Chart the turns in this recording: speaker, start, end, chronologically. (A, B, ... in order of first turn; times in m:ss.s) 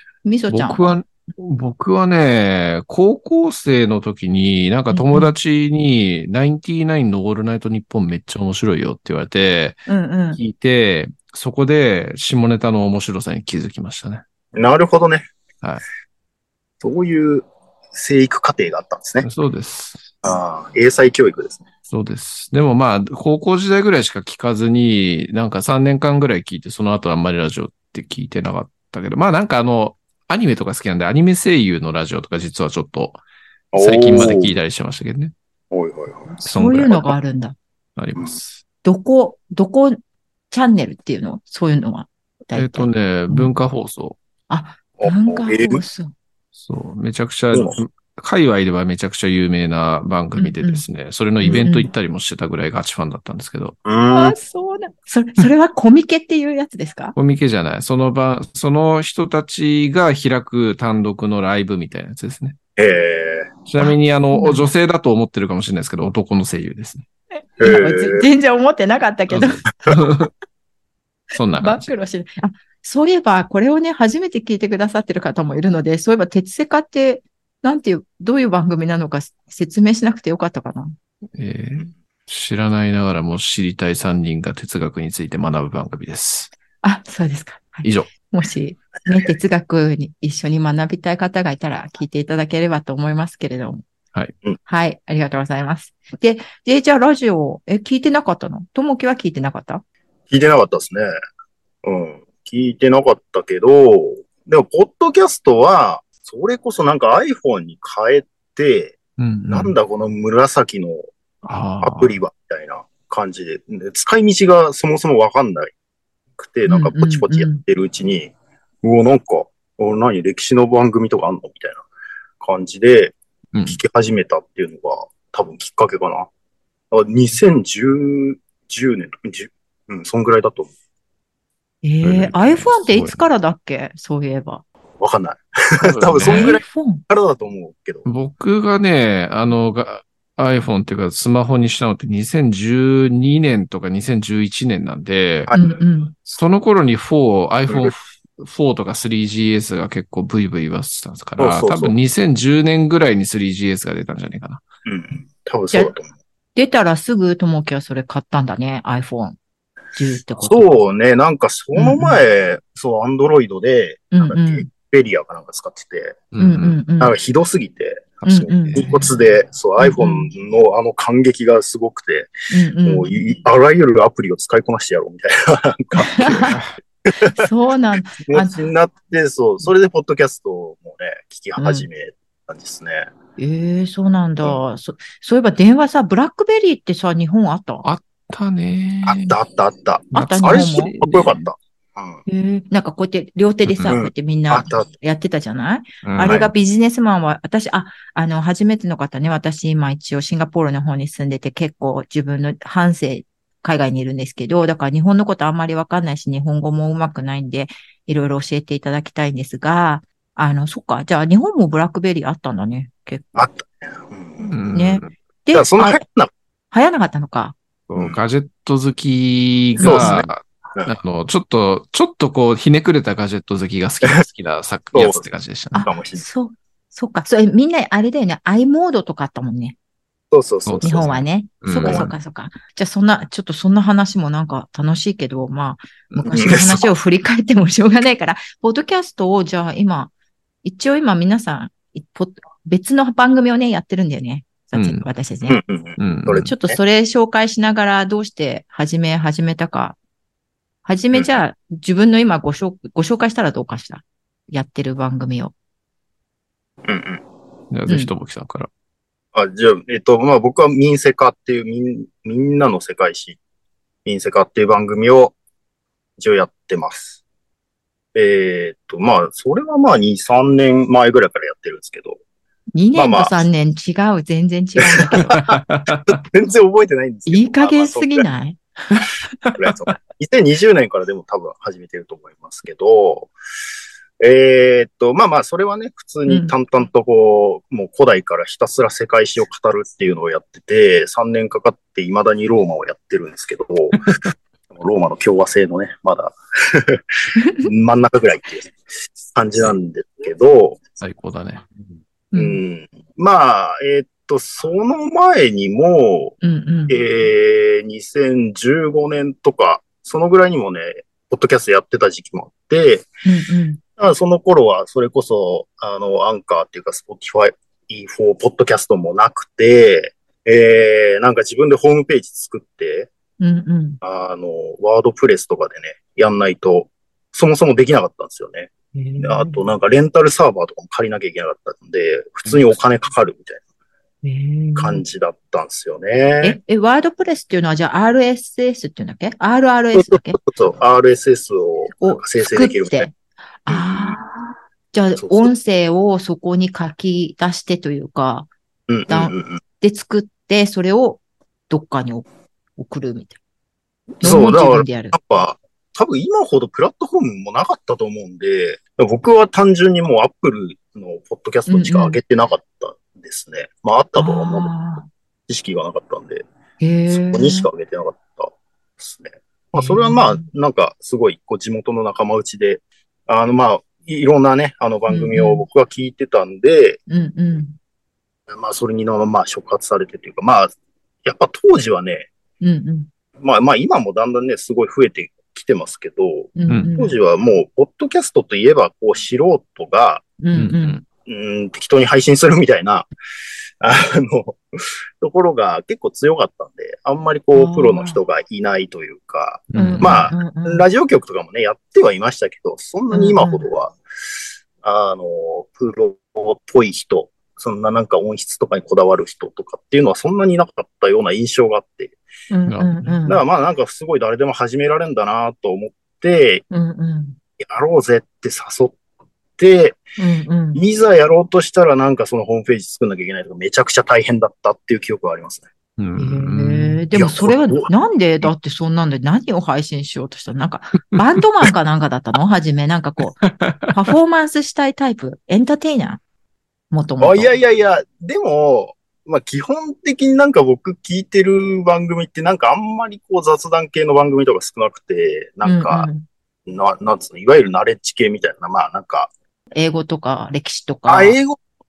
0:00.2-0:01.0 A
0:00.5-0:14.2 B
0:04.9-0:05.3 A
0:09.9-0:10.4 A
0:14.5-0:15.3 C
0:16.8-0:19.2 C
0:19.2-0:20.1 B
0:20.2-0:21.6 C
0:21.9-0:33.2 B
0:33.7-0:34.6 C
0:33.7-0:35.3 B
0:35.7-0:36.4 C
0:36.4-0:37.6 A
0:36.4-0:37.1 B
0:38.0-0:38.6 B
0:38.8-0:40.0 A
0:40.5-0:43.5 A
0:42.5-0:44.2 B
0:44.5-0:46.1 A
0:45.0-0:45.8 C
0:46.6-0:53.8 B
0:50.4-0:50.8 A
0:51.4-0:51.7 C
0:51.5-0:51.9 A
0:53.8-0:54.4 C
0:54.1-0:57.2 A
0:57.2-1:02.6 B
1:02.8-1:03.5 C
1:03.7-1:07.0 B
1:03.8-1:04.7 A
1:07.6-1:08.2 C
1:07.6-1:09.7 A
1:09.3-1:10.3 B
1:11.3-1:11.9 B
1:11.6-1:20.9 A
1:21.3-1:26.5 B
1:26.8-1:33.8 A
1:27.8-1:28.1 B
1:34.6-1:39.8 A
1:40.3-1:41.1 C
1:41.8-1:49.0 C
1:49.2-1:49.7 B
1:49.5-1:51.1 C
1:51.4-1:52.1 B
1:51.8-1:55.7 C
1:56.4-1:58.3 C
1:56.7-1:57.6 A
1:58.8-2:01.8 C
2:02.4-2:03.1 C
2:03.5-2:03.8 B
2:03.6-2:06.3 C
2:06.9-2:10.7 C
2:11.8-2:14.6 A
2:12.0-2:13.2 B
2:15.0-2:18.0 C
2:15.8-2:16.6 B
2:16.2-2:17.0 A
2:18.0-2:25.5 B
2:25.5-2:25.8 C
2:25.5-2:26.1 A
2:26.2-2:34.6 B
2:31.4-2:32.0 C
2:34.8-2:36.1 C
2:36.6-2:39.4 A
2:39.9-2:40.7 A
2:40.4-2:46.2 C
2:41.7-2:42.2 A
2:44.1-2:44.7 A
2:46.3-2:46.8 B
2:46.4-2:47.1 A
2:47.0-2:52.3 C
2:48.2-2:48.9 B
2:48.2-2:48.9 A
2:49.8-2:50.3 A
2:52.5-2:53.1 A
2:52.8-2:56.6 C
2:56.0-2:56.5 A
2:56.1-2:56.7 B
2:57.2-2:58.6 A
2:58.2-3:03.1 C
3:01.6-3:01.9 A
3:03.4-3:07.8 A
3:07.8-3:09.4 B
3:09.0-3:12.2 C
3:10.1-3:10.9 A
3:10.1-3:11.4 B
3:12.2-3:33.4 A
3:13.7-3:14.0 B
3:13.9-3:14.9 C
3:16.0-3:16.4 B
3:16.2-3:16.5 C
3:33.3-3:34.5 C
3:34.4-3:35.1 B
3:34.7-3:36.0 A
3:35.5-3:36.3 C
3:36.7-3:37.6 A
3:37.9-3:45.9 B
3:39.8-3:40.2 A
3:39.8-3:40.9 C
3:44.9-3:45.2 C
3:45.7-3:49.8 A
3:45.8-3:46.2 C
3:50.3-3:51.2 C
3:50.6-3:52.1 B
3:50.8-4:00.1 A
3:51.8-3:52.1 C
3:56.1-3:56.5 B
3:56.2-3:56.9 C
4:00.6-4:05.6 A
4:04.7-4:05.0 B
4:05.5-4:06.8 C
4:06.0-4:06.5 B
4:06.4-4:10.0 A
4:10.8-4:15.5 A
4:16.8-4:17.2 C
4:17.7-4:18.7 B
4:19.3-4:23.4 C
4:24.0-4:25.4 C
4:26.2-4:27.2 C
4:28.1-4:32.2 C
4:32.7-4:35.5 A
4:32.9-4:33.4 C
4:34.8-4:35.4 C
4:35.2-4:36.2 B
4:36.0-4:38.3 C
4:37.3-4:39.0 A
4:39.5-4:43.3 C
4:44.2-4:54.0 C
4:46.3-4:46.5 A
4:54.7-4:57.0 C
4:57.4-4:57.7 A
4:57.6-4:58.8 C
4:59.3-5:00.8 C
5:01.0-5:01.8 B
5:02.3-5:02.6 A
5:02.3-5:06.3 C
5:06.4-5:07.0 A
5:06.9-5:13.1 C
5:13.2-5:13.8 A
5:14.0-5:23.1 C
5:23.4-5:24.0 A
5:24.0-5:33.6 C
5:28.9-5:29.7 A
5:34.2-5:35.0 A
5:34.8-5:36.6 C
5:36.4-5:40.4 A
5:40.0-5:43.1 C
5:42.0-5:48.5 A
5:43.7-5:44.2 C
5:45.2-5:45.5 C
5:48.9-5:49.6 C
5:49.1-5:52.2 A
5:52.8-5:53.4 A
5:54.2-5:55.1 A
5:54.2-6:04.7 C
6:01.7-6:02.2 A
6:04.2-6:05.1 A
6:05.5-6:06.4 C
6:06.8-6:07.7 A
6:07.1-6:17.0 C
6:09.8-6:10.5 A
6:15.1-6:15.6 A
6:17.1-6:17.8 A
6:18.5-6:20.7 C
6:21.2-6:22.3 C
6:22.6-6:23.1 A
6:23.4-6:30.2 C
6:26.6-6:27.2 A
6:30.4-6:31.0 A
6:30.5-6:31.0 B
6:31.2-6:33.1 C
6:33.8-6:34.6 C
6:35.2-6:44.0 C
6:37.5-6:38.2 A
6:39.7-6:40.1 B
6:39.8-6:40.8 A
6:43.1-6:43.6 A
6:44.8-6:52.2 C
6:52.5-6:53.4 A
6:52.7-6:53.2 B
6:53.2-6:56.6 C
6:56.7-6:57.4 A
6:57.6-6:59.0 C
6:59.6-7:00.0 C
7:00.2-7:00.8 A
7:00.7-7:05.6 C
7:06.0-7:07.0 B
7:06.2-7:13.4 A
7:07.1-7:07.9 C
7:13.4-7:13.9 B
7:13.9-7:16.2 A
7:16.9-7:17.5 A
7:17.2-7:26.1 C
7:25.6-7:26.2 A
7:26.7-7:29.3 C
7:29.7-7:31.4 A
7:31.1-7:31.6 C